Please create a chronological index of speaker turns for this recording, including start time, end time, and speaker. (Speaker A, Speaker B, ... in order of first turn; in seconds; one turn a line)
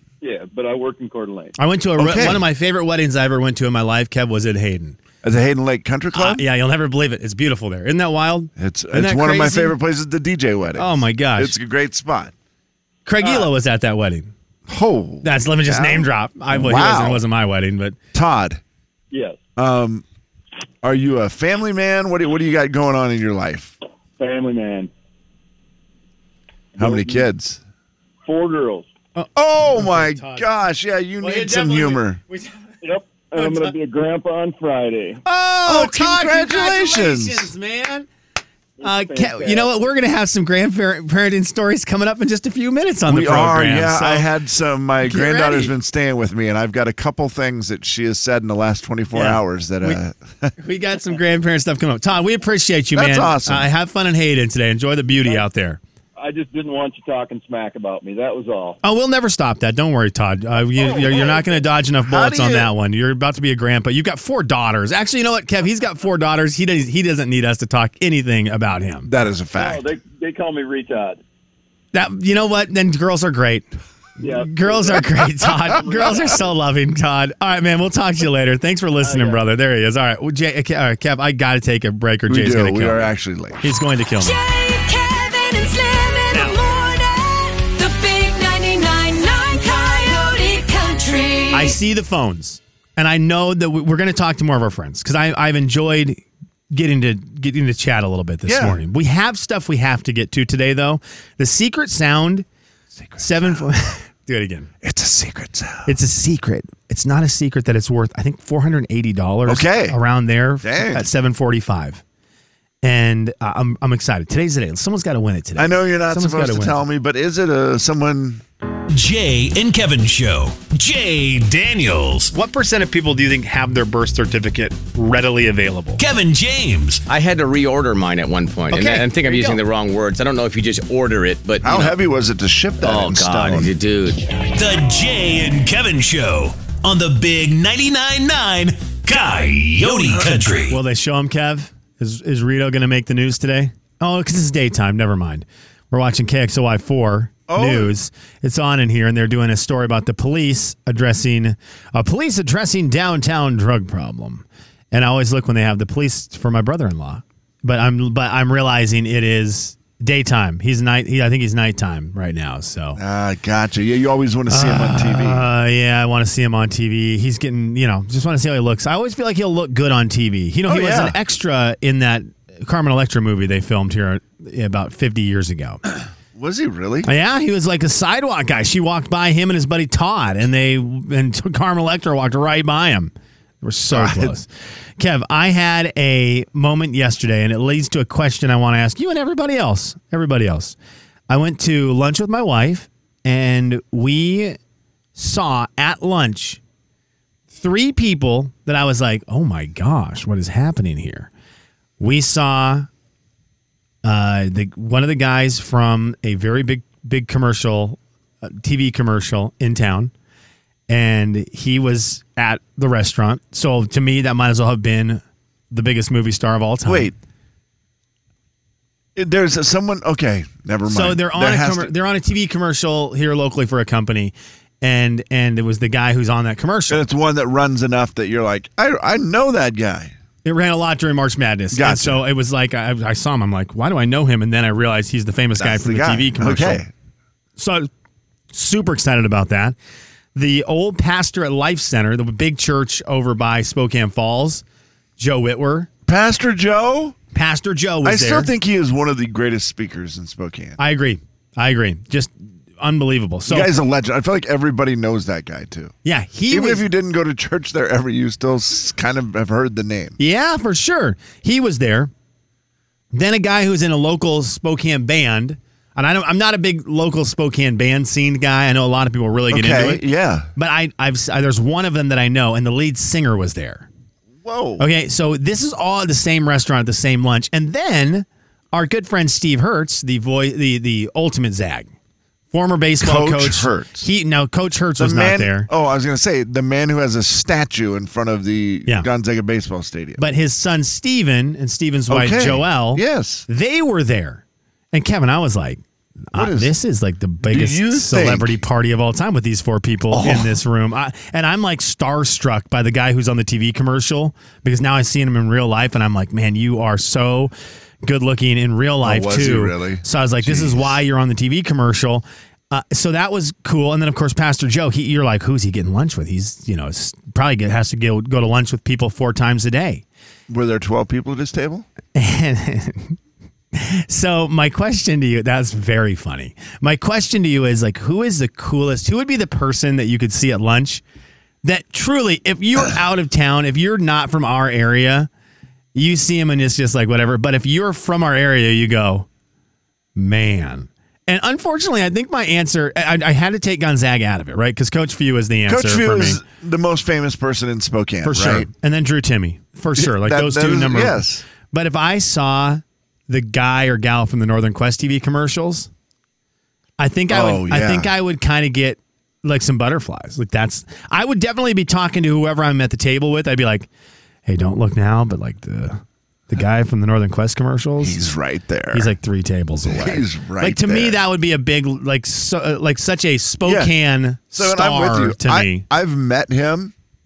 Speaker A: 0.2-1.5
Speaker B: 1.6-5.0
Speaker C: 2.0-2.5
Speaker C: 5.2-6.5
Speaker B: 6.1-9.8
Speaker C: 8.6-12.3
Speaker B: 10.8-11.6
Speaker B: 13.1-14.3
Speaker C: 14.7-17.2
Speaker B: 15.2-18.0
Speaker C: 18.1-18.6
Speaker A: 19.1-19.4
Speaker C: 19.6-20.1
Speaker C: 20.8-23.8
Speaker A: 24.2-24.9
Speaker A: 26.8-27.2
Speaker C: 26.8-27.6
Speaker A: 28.3-28.9
Speaker B: 29.1-30.5
Speaker C: 29.4-32.2
Speaker B: 31.2-32.6
Speaker A: 32.8-35.2
Speaker B: 33.3-33.7
Speaker B: 35.2-38.1
Speaker C: 35.6-37.5
Speaker A: 38.8-39.8
Speaker B: 38.8-44.3
Speaker C: 43.1-50.5
Speaker B: 45.0-45.7
Speaker B: 49.1-50.0
Speaker B: 50.6-55.8
Speaker C: 52.9-53.7
Speaker A: 56.2-58.8
Speaker B: 58.8-69.1
Speaker A: 60.7-61.6
Speaker C: 62.0-62.7
Speaker C: 69.0-69.8
Speaker A: 69.6-71.2
Speaker B: 71.9-73.7
Speaker A: 74.2-75.1
Speaker B: 74.2-84.4
Speaker A: 75.7-76.4
Speaker A: 79.0-79.4
Speaker C: 82.3-83.6
Speaker D: 84.2-91.8
Speaker B: 86.3-86.6
Speaker B: 91.5-102.5
Speaker C: 98.5-98.8
Speaker C: 102.9-103.7
Speaker B: 103.2-104.7
Speaker C: 104.8-106.0
Speaker B: 105.9-112.0
Speaker C: 109.5-110.0
Speaker C: 110.6-111.1
Speaker B: 112.8-116.8
Speaker C: 115.6-118.4
Speaker E: 118.9-122.3
Speaker B: 122.3-126.0
Speaker E: 126.0-127.0
Speaker F: 127.1-132.0
Speaker B: 128.7-129.6
Speaker C: 131.6-133.7
Speaker F: 132.8-134.2
Speaker E: 134.5-140.8
Speaker B: 140.7-163.0
Speaker C: 147.5-147.9
Speaker C: 163.0-165.5
Speaker B: 164.5-175.8
Speaker C: 170.7-171.2
Speaker C: 176.3-177.1
Speaker B: 177.1-184.5
Speaker C: 183.9-184.4
Speaker B: 185.0-190.8
Speaker B: 191.3-194.6
Speaker B: 195.2-196.6
Speaker B: 197.5-201.3
Speaker B: 202.0-202.9
Speaker B: 204.0-210.1
Speaker B: 210.9-217.1
Speaker C: 216.9-217.2
Speaker C: 219.2-221.9
Speaker B: 220.9-227.0
Speaker C: 226.9-230.1
Speaker B: 230.4-236.8
Speaker C: 231.7-232.2
Speaker C: 235.6-236.9
Speaker B: 237.6-237.9
Speaker B: 238.5-239.8
Speaker B: 240.3-244.6
Speaker B: 245.2-245.9
Speaker C: 246.1-247.2
Speaker B: 247.3-248.5
Speaker C: 248.0-250.8
Speaker B: 250.8-253.7
Speaker C: 253.5-255.9
Speaker B: 256.1-256.9
Speaker C: 256.5-260.2
Speaker B: 260.2-262.1
Speaker B: 263.1-270.0
Speaker C: 269.5-270.5
Speaker B: 270.6-273.9
Speaker C: 274.4-274.9
Speaker B: 274.8-281.9
Speaker B: 282.5-285.7
Speaker C: 283.0-284.1
Speaker C: 285.0-290.2
Speaker B: 290.2-294.4
Speaker C: 292.1-293.5
Speaker B: 294.9-307.5
Speaker C: 296.3-296.8
Speaker C: 297.4-298.6
Speaker C: 300.1-300.6
Speaker B: 308.0-320.0
Speaker C: 309.0-311.0
Speaker C: 320.5-321.9
Speaker B: 322.1-323.2
Speaker B: 323.7-331.0
Speaker B: 331.6-335.3
Speaker B: 335.9-339.3
Speaker B: 340.2-346.4
Speaker C: 345.7-348.7
Speaker B: 348.2-355.9
Speaker C: 350.0-351.4
Speaker B: 357.0-363.9
Speaker C: 357.3-358.1
Speaker B: 364.5-368.2
Speaker C: 368.0-369.1
Speaker B: 368.9-375.9
Speaker C: 369.9-371.2
Speaker C: 373.6-373.9
Speaker C: 374.5-376.9